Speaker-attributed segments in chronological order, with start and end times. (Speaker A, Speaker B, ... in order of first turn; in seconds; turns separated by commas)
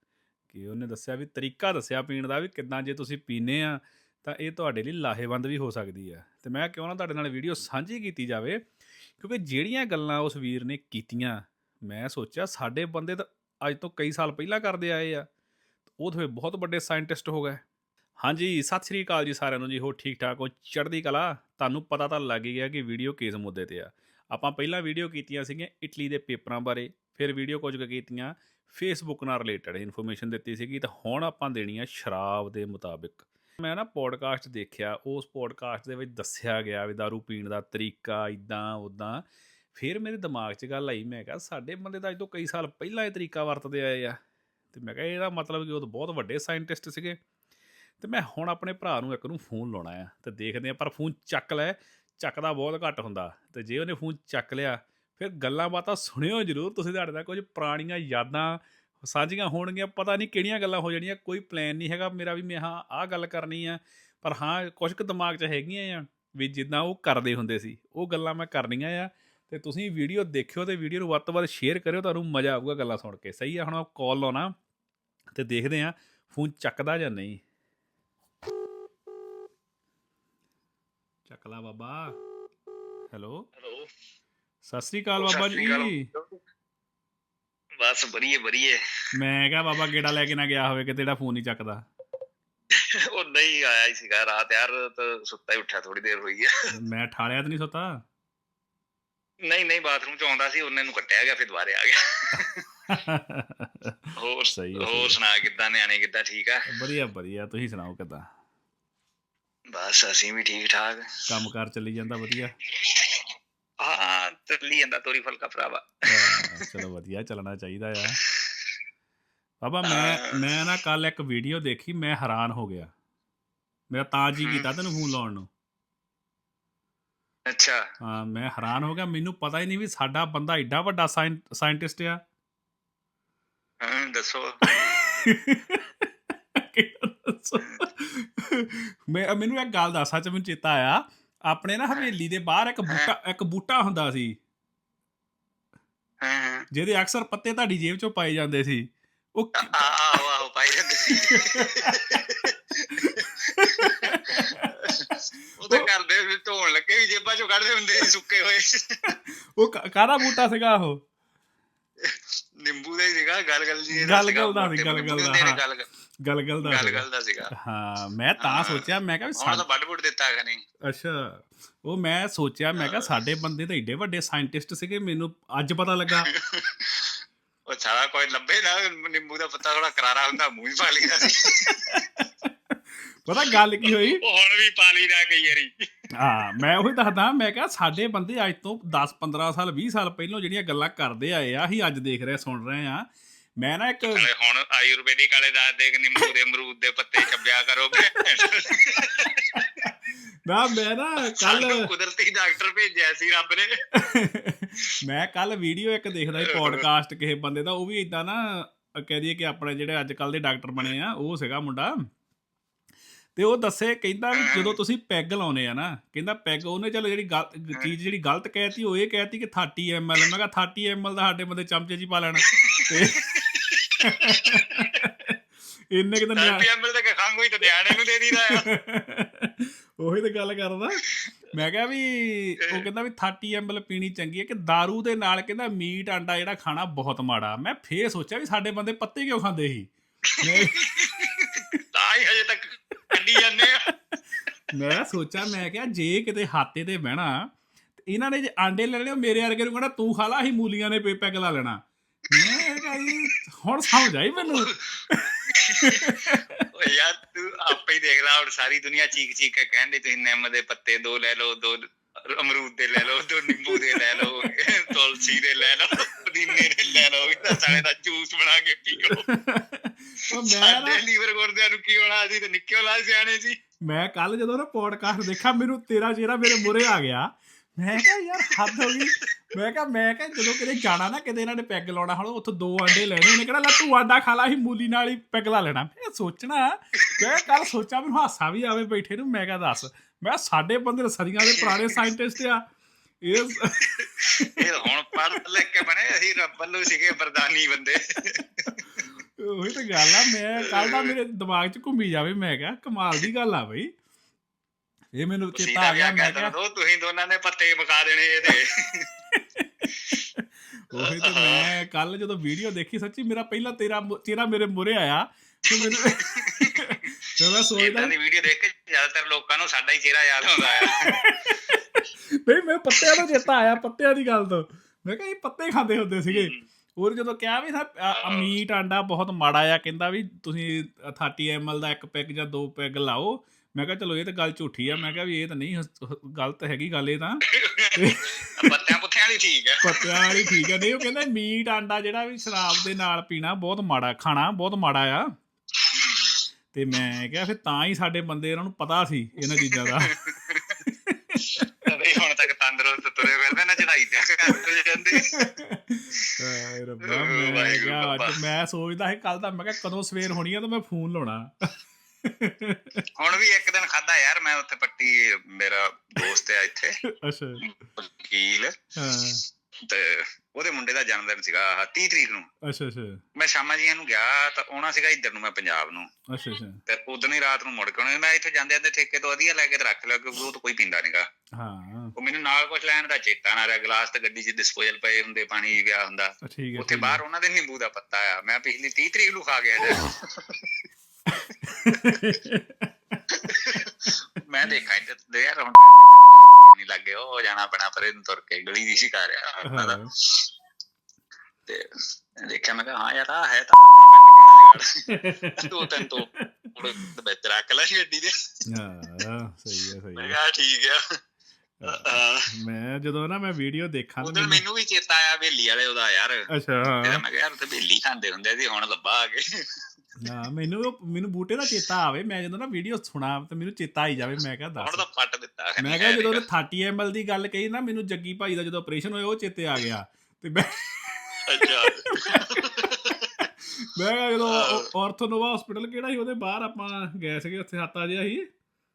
Speaker A: 0.5-8.7, Speaker A: 9.2-15.3, Speaker A: 15.9-17.6, Speaker A: 18.2-44.2, Speaker A: 44.7-47.2, Speaker A: 48.0-74.5, Speaker A: 75.3-77.4, Speaker A: 81.2-82.2, Speaker A: 83.1-83.5, Speaker B: 83.6-83.9, Speaker A: 84.6-86.1, Speaker B: 85.2-86.3, Speaker B: 87.8-88.8, Speaker A: 89.1-91.8, Speaker B: 92.7-96.5, Speaker A: 96.7-98.0, Speaker B: 99.4-102.6, Speaker A: 102.9-104.0, Speaker B: 104.2-106.7, Speaker A: 104.5-105.2, Speaker A: 106.7-108.2, Speaker B: 109.7-111.1, Speaker A: 111.3-112.5, Speaker B: 112.8-113.2, Speaker B: 113.8-116.8, Speaker A: 116.1-118.2, Speaker B: 118.2-118.6, Speaker A: 119.6-122.9, Speaker B: 119.8-120.4, Speaker A: 123.9-125.5, Speaker B: 127.5-127.8, Speaker A: 128.0-132.2, Speaker B: 133.8-134.6, Speaker A: 134.6-144.4, Speaker B: 146.2-146.7, Speaker A: 146.7-150.2, Speaker B: 149.6-159.1, Speaker A: 151.2-152.2, Speaker A: 152.9-154.9, Speaker A: 159.1-161.0, Speaker B: 162.0-165.9, Speaker A: 163.9-165.6, Speaker A: 166.2-167.0, Speaker B: 166.6-167.5, Speaker A: 167.6-169.6, Speaker B: 168.4-170.6, Speaker A: 170.9-176.3, Speaker B: 172.8-173.1, Speaker B: 176.2-177.2, Speaker B: 177.7-182.0, Speaker A: 181.7-182.5, Speaker A: 183.2-184.2, Speaker B: 183.5-185.8, Speaker A: 186.2-193.1, Speaker A: 193.6-194.3, Speaker B: 194.1-199.9, Speaker A: 198.2-198.5, Speaker A: 199.6-199.9, Speaker A: 200.4-201.9, Speaker B: 201.3-203.7, Speaker A: 203.9-212.0, Speaker B: 206.4-206.8, Speaker A: 213.3-223.4, Speaker B: 214.3-214.8, Speaker B: 222.4-225.1, Speaker A: 224.0-225.3, Speaker A: 225.9-226.7, Speaker B: 226.3-228.7, Speaker A: 228.5-241.6, Speaker B: 240.3-243.9, Speaker A: 244.7-247.5, Speaker A: 248.1-256.6, Speaker B: 252.3-253.3, Speaker B: 254.4-254.8, Speaker B: 255.5-269.2, Speaker A: 263.2-264.5, Speaker A: 266.0-267.0, Speaker A: 267.6-267.8, Speaker A: 269.0-271.0, Speaker B: 270.3-273.6, Speaker A: 273.8-292.6, Speaker B: 276.4-276.9, Speaker B: 278.6-279.3, Speaker B: 287.1-287.5, Speaker B: 291.4-292.0, Speaker A: 293.2-294.6, Speaker B: 293.9-298.7, Speaker A: 298.9-303.9, Speaker B: 300.6-301.1, Speaker A: 305.1-306.5, Speaker B: 305.5-309.1, Speaker A: 309.3-318.1, Speaker B: 310.9-311.7, Speaker B: 315.7-317.1, Speaker B: 317.7-321.2, Speaker A: 320.8-337.4, Speaker B: 323.0-323.5, Speaker B: 326.3-326.6, Speaker B: 328.1-328.5, Speaker B: 334.9-335.1, Speaker B: 337.5-340.9, Speaker A: 337.9-338.9, Speaker A: 339.8-345.3, Speaker B: 345.8-346.4, Speaker A: 346.7-350.2, Speaker B: 349.6-350.8, Speaker A: 351.1-351.7, Speaker B: 351.5-355.5, Speaker A: 355.3-361.7, Speaker B: 357.0-358.4, Speaker A: 362.2-363.0, Speaker B: 363.1-367.0, Speaker A: 367.1-367.6, Speaker B: 367.6-368.7, Speaker A: 368.9-369.4, Speaker B: 369.8-372.5, Speaker A: 372.6-373.2, Speaker B: 373.4-376.1, Speaker A: 376.3-376.8, Speaker B: 376.9-381.2, Speaker A: 381.6-382.1, Speaker B: 382.1-390.7, Speaker A: 386.4-387.2, Speaker A: 391.6-393.2, Speaker B: 393.3-400.5, Speaker A: 399.6-400.1, Speaker B: 402.4-404.9, Speaker A: 405.1-407.0, Speaker B: 405.6-408.3, Speaker A: 408.7-410.4, Speaker B: 410.2-411.0, Speaker A: 411.8-414.6, Speaker B: 411.9-412.5, Speaker B: 414.2-416.5, Speaker A: 416.5-417.2, Speaker B: 417.0-419.4, Speaker A: 420.2-425.0, Speaker B: 424.8-426.4, Speaker A: 425.8-438.5, Speaker B: 431.5-433.3, Speaker B: 434.4-434.9